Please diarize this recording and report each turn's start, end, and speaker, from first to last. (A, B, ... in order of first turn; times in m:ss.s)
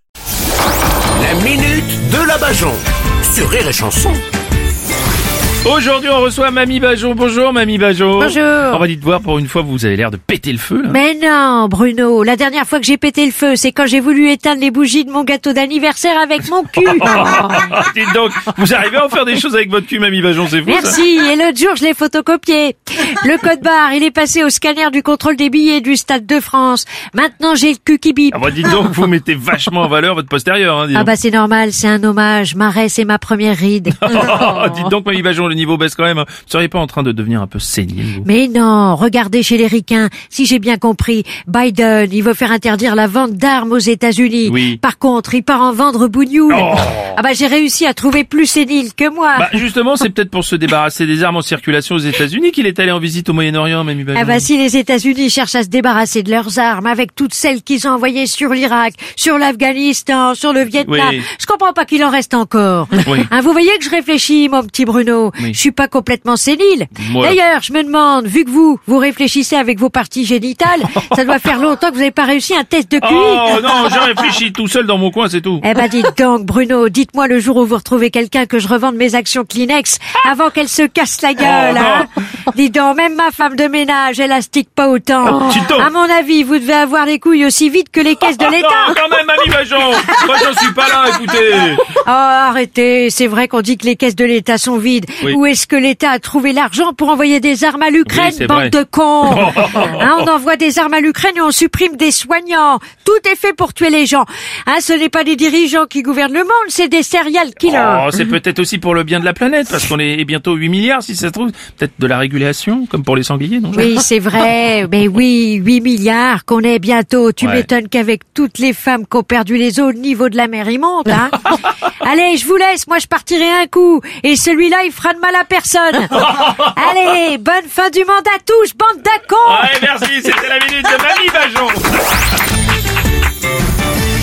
0:01.1-0:04.2 A
0:05.6-0:11.0 B
0:08.2-0:08.8 C
0:10.9-0:17.7 C
0:16.9-0:21.0 B
0:20.6-0:28.7 C
0:28.3-0:31.1 B
0:30.9-0:34.8 C
0:33.9-0:38.3 B
0:38.2-0:49.6 C
0:44.4-0:44.8 B
0:46.5-0:47.2 B
0:49.4-0:54.5 B
0:54.1-1:14.2 C
1:00.8-1:01.3 B
1:03.0-1:03.3 B
1:07.0-1:07.4 B
1:13.0-1:15.6 B
1:15.6-1:29.0 C
1:21.4-1:22.1 B
1:25.2-1:25.9 B
1:28.2-1:31.8 B
1:29.9-1:30.6 C
1:31.3-1:48.2 C
1:38.0-1:40.3 B
1:47.6-1:54.0 B
1:53.7-2:09.8 C
1:57.4-1:57.7 B
2:06.1-2:06.6 B
2:09.4-2:12.1 B